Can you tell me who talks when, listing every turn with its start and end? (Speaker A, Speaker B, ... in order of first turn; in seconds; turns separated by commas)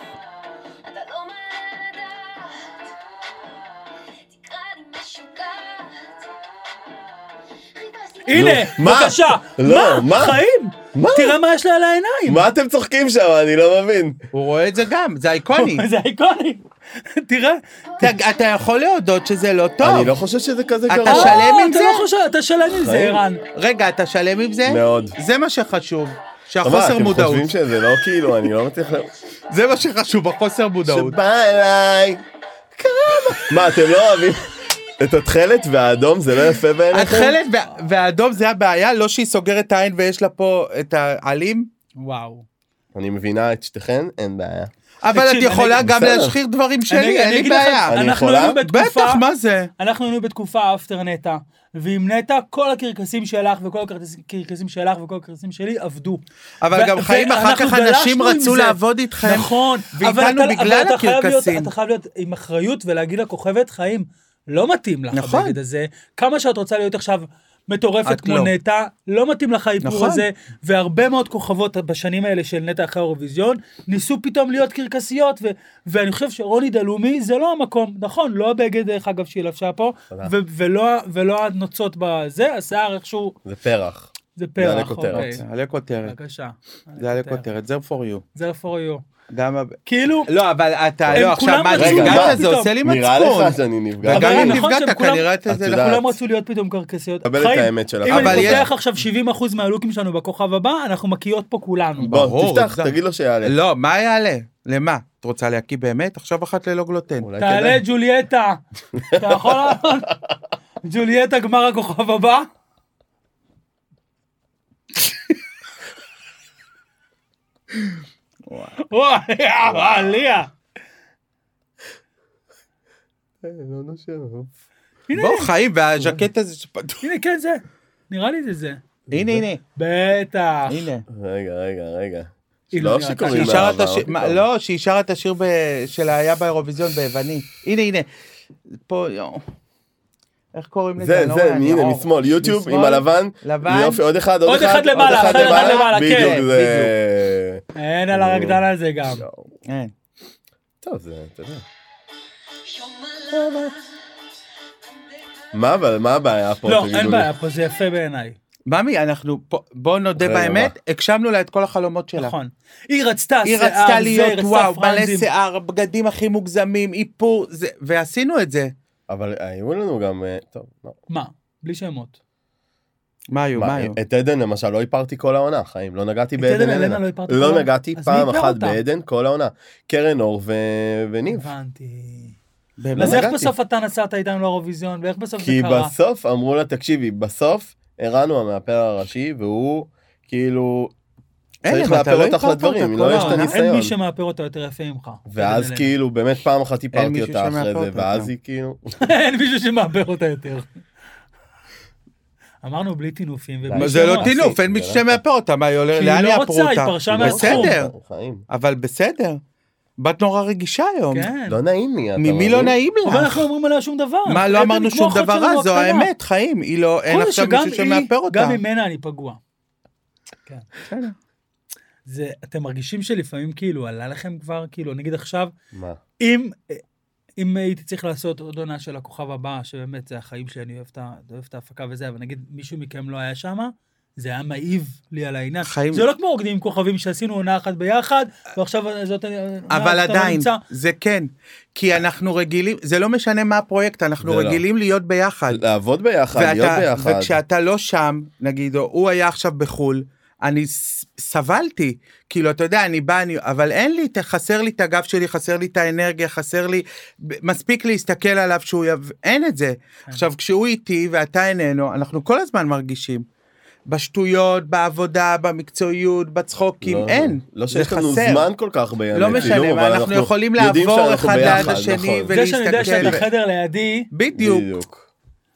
Speaker A: 0.8-8.7, Speaker B: 8.2-12.4, Speaker C: 8.3-10.4, Speaker C: 10.9-11.4, Speaker C: 12.2-14.2, Speaker D: 14.3-15.8, Speaker B: 15.5-18.2, Speaker D: 18.0-20.1, Speaker C: 19.8-21.5, Speaker D: 20.9-22.1, Speaker B: 21.0-23.4, Speaker C: 22.7-23.2, Speaker D: 23.5-27.5, Speaker C: 24.6-25.2, Speaker C: 26.6-29.1, Speaker D: 29.5-31.2, Speaker C: 30.8-32.2, Speaker C: 32.8-37.4, Speaker D: 36.9-41.7, Speaker B: 42.0-42.4, Speaker C: 42.9-44.7, Speaker D: 45.0-48.0, Speaker B: 45.1-45.8, Speaker C: 45.7-46.4, Speaker B: 46.9-49.2, Speaker C: 47.9-48.6, Speaker D: 48.6-49.7, Speaker B: 49.8-83.4, Speaker D: 56.6-61.7, Speaker D: 65.1-65.6, Speaker D: 68.0-68.5, Speaker D: 69.8-70.3, Speaker C: 83.4-85.4, Speaker B: 84.3-85.4, Speaker D: 85.1-86.1, Speaker B: 86.0-87.5, Speaker D: 87.0-88.2, Speaker B: 88.3-89.0, Speaker D: 89.3-96.1, Speaker B: 89.8-90.3, Speaker C: 91.0-94.6, Speaker B: 91.1-92.7, Speaker B: 94.1-102.2, Speaker C: 95.5-96.0, Speaker C: 97.2-98.7, Speaker D: 98.1-98.7, Speaker D: 102.0-102.9, Speaker C: 102.0-103.6, Speaker D: 103.4-107.3, Speaker C: 107.2-107.8, Speaker B: 107.4-108.6, Speaker C: 108.9-109.4, Speaker B: 109.1-110.1, Speaker B: 110.8-112.5, Speaker D: 118.5-118.7, Speaker B: 118.8-120.5, Speaker C: 119.7-120.2, Speaker C: 123.4-124.5, Speaker B: 125.1-125.5, Speaker D: 125.1-127.0, Speaker B: 127.0-128.8, Speaker C: 129.1-129.4, Speaker D: 129.1-129.6, Speaker B: 129.8-130.9, Speaker D: 130.7-131.0, Speaker C: 131.1-134.4, Speaker B: 132.7-133.7, Speaker D: 133.3-138.1, Speaker D: 138.8-139.4, Speaker D: 140.5-144.0, Speaker C: 141.0-149.5, Speaker B: 144.4-146.4, Speaker D: 144.9-146.9, Speaker B: 147.7-149.2, Speaker D: 149.7-149.9, Speaker C: 150.8-151.6, Speaker A: 152.6-154.0, Speaker C: 153.3-153.7, Speaker A: 154.9-155.2, Speaker C: 155.5-157.3, Speaker B: 156.6-158.4, Speaker D: 158.7-162.3, Speaker C: 160.2-160.7, Speaker B: 162.2-165.3, Speaker D: 163.4-168.7, Speaker C: 169.1-171.0, Speaker B: 171.1-172.2, Speaker D: 173.3-174.0, Speaker C: 173.6-181.5, Speaker B: 176.4-178.8, Speaker B: 181.3-182.4, Speaker D: 182.8-183.3, Speaker C: 182.9-183.5, Speaker B: 183.0-185.9, Speaker C: 185.4-190.9, Speaker D: 191.6-193.5, Speaker C: 191.7-193.9, Speaker B: 193.1-195.9, Speaker C: 195.2-199.0, Speaker D: 196.9-198.3, Speaker B: 199.0-200.7, Speaker B: 202.6-204.5, Speaker C: 203.6-205.2, Speaker D: 203.8-207.9, Speaker B: 205.9-207.7, Speaker C: 207.1-208.4, Speaker D: 208.5-209.4, Speaker D: 210.0-211.3, Speaker B: 211.1-211.6, Speaker C: 211.5-212.8, Speaker D: 212.2-213.5, Speaker B: 213.0-216.1, Speaker D: 214.2-218.6, Speaker B: 217.1-219.4, Speaker D: 220.8-221.1, Speaker B: 222.1-225.5, Speaker C: 225.7-226.0, Speaker B: 226.2-226.8, Speaker B: 227.4-240.6, Speaker D: 235.6-236.1, Speaker D: 239.7-245.6, Speaker C: 244.2-244.6, Speaker C: 245.5-247.4, Speaker D: 246.3-263.2, Speaker D: 263.9-268.5, Speaker C: 266.8-273.2, Speaker D: 269.1-273.2, Speaker B: 269.3-269.6, Speaker B: 271.4-271.7, Speaker B: 272.3-274.1, Speaker D: 274.1-274.7, Speaker C: 274.3-275.1